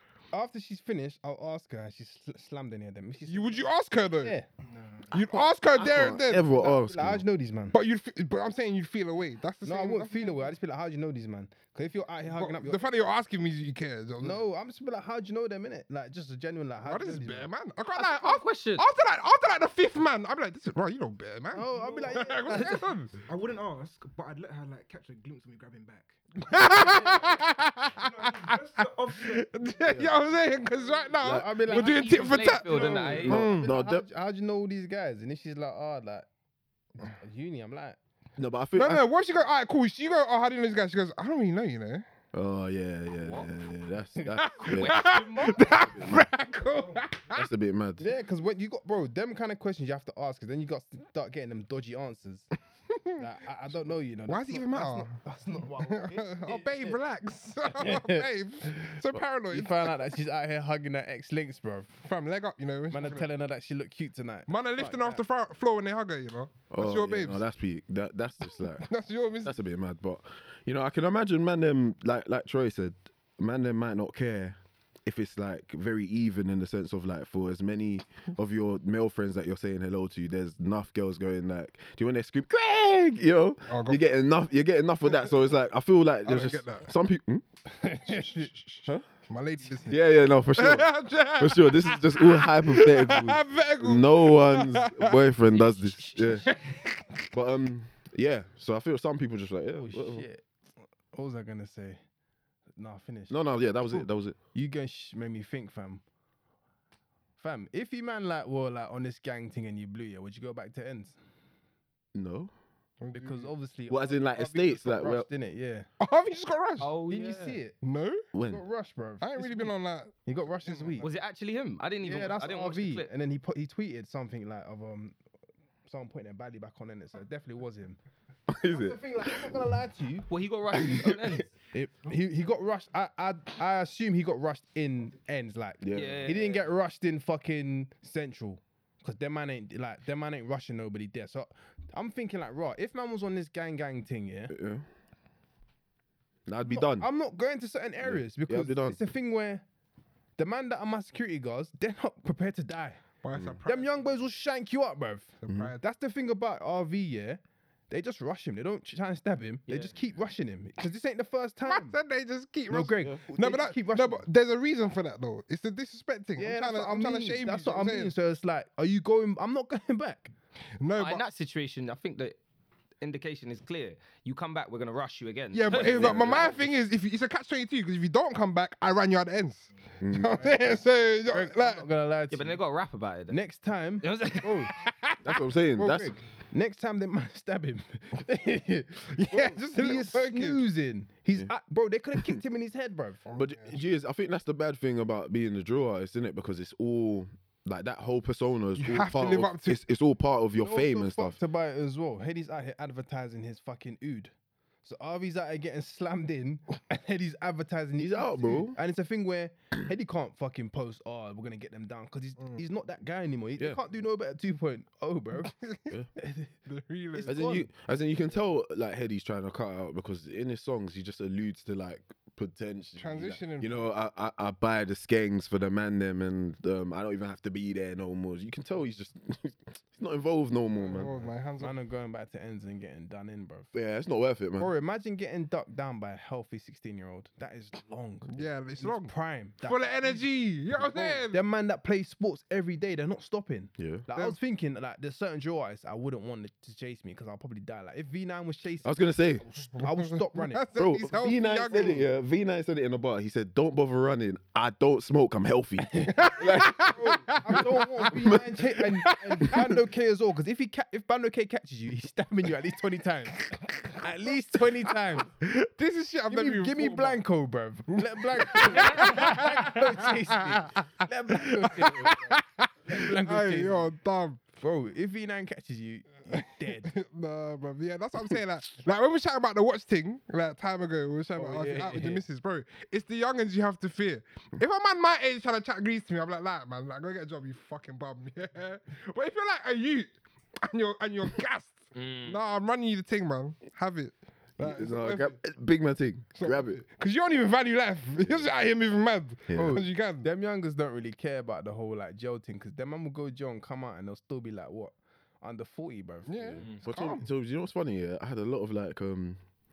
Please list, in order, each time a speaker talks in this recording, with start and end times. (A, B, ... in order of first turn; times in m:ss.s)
0:00.3-0:03.7 A
0:03.2-0:04.4 B
0:04.2-0:04.5 A
0:05.1-0:06.5 B
0:05.3-0:07.2 C
0:06.5-0:07.8 A
0:07.7-0:10.5 B
0:09.6-0:12.8 A
0:12.2-0:14.4 B
0:14.2-0:17.5 A
0:16.8-0:23.2 B
0:17.9-0:18.8 D
0:21.5-0:22.8 A
0:21.8-0:22.0 E
0:23.2-0:27.3 E
0:26.4-0:33.7 B
0:27.9-0:29.5 E
0:29.8-0:30.2 C
0:31.2-0:36.3 A
0:31.6-0:33.4 D
0:33.2-0:34.0 C
0:37.0-0:38.0 A
0:38.4-0:39.0 C
0:38.7-0:42.0 B
0:42.3-0:45.0 C
0:43.2-0:43.5 D
0:44.4-0:47.5 B
0:44.6-0:46.0 D
0:45.9-0:46.3 C
0:47.3-0:48.1 C
0:48.0-0:52.5 A
0:52.9-0:53.2 B
0:53.2-0:57.0 A
0:54.3-0:55.2 B
0:55.8-0:59.9 B
0:57.7-0:58.9 A
0:59.5-1:02.0 A
1:02.0-1:03.3 B
1:02.9-1:05.2 A
1:04.5-1:07.4 B
1:06.7-1:08.9 C
1:08.7-1:09.6 B
1:09.4-1:27.4 C
1:23.7-1:24.0 B
1:26.2-1:26.9 B
1:27.8-1:28.5 A
1:28.0-1:35.2 B
1:29.9-1:36.5 C
1:35.5-1:36.6 D
1:36.5-1:37.3 B
1:37.3-1:40.3 C
1:39.8-1:40.4 A
1:41.1-1:42.0 A
1:42.8-1:46.0 A
1:43.3-1:44.4 C
1:47.4-1:51.2 A
1:52.1-1:52.5 C
1:53.0-1:53.5 B
1:53.1-1:55.9 A
1:53.9-1:55.3 C
1:56.0-1:56.9 B
1:56.8-1:57.6 D
1:57.1-1:57.8 A
1:57.8-1:58.2 B
1:58.3-1:58.6 C
1:58.5-1:59.7 A
1:59.2-2:01.1 B
2:00.2-2:01.1 A
2:01.0-2:03.1 D
2:02.0-2:05.2 A
2:05.8-2:08.0 A
2:08.5-2:09.6 C
2:08.6-2:10.3 A
2:10.3-2:11.5 D
2:11.7-2:24.5 A
2:15.8-2:16.3 C
2:15.9-2:16.7 D
2:24.5-2:24.8 C
2:26.4-2:27.1 C
2:26.6-2:29.6 A
2:28.0-2:29.0 C
2:30.4-2:33.0 A
2:33.2-2:34.1 B
2:33.6-2:42.0 A
2:35.4-2:35.7 B
2:39.7-2:39.9 D
2:41.6-2:48.1 B
2:42.7-2:44.2 A
2:46.4-2:50.3 A
2:50.8-2:51.2 B
2:51.0-2:52.4 D
2:53.0-2:56.6 D
2:55.5-3:01.8 B
2:55.8-2:56.5 C
3:00.0-3:00.4 C
3:01.3-3:02.6 A
3:02.3-3:03.4 D
3:03.3-3:04.7 A
3:04.0-3:04.7 D
3:04.7-3:05.4 B
3:05.2-3:06.2 C
3:05.8-3:13.2 A
3:09.1-3:10.6 B
3:13.3-3:13.8 B
3:13.4-3:21.4 C
3:18.8-3:19.8 B
3:20.6-3:24.3 A
3:24.8-3:35.5 A
3:28.0-3:28.8 C
3:35.4-3:35.9 B
3:36.2-3:36.5 A
3:36.6-3:37.4 B
3:37.1-3:37.7 A
3:37.2-3:51.2 C
3:43.0-3:43.7 B
3:50.8-3:51.7 B
3:51.2-3:53.7 A
3:53.7-3:54.7 C
3:54.6-4:10.7 A
3:58.3-4:01.4 B
4:03.8-4:04.1 C
4:08.8-4:09.4 C
4:09.8-4:12.0 B
4:10.8-4:16.9 C
4:15.9-4:25.3 A
4:16.2-4:18.1 B
4:17.6-4:18.6 C
4:25.4-4:27.2 B
4:26.3-4:33.9 A
4:28.0-4:30.7 B
4:31.4-4:34.4 B
4:34.6-4:36.9 A
4:36.8-4:55.4 B
4:41.4-4:42.2 A
4:51.9-4:52.4 D
4:54.6-4:56.8 C
4:56.3-5:00.3 B
4:58.2-4:58.5 C
4:59.5-4:59.8 C
4:59.5-5:06.7 A
5:06.3-5:07.2 B
5:06.7-5:09.4 C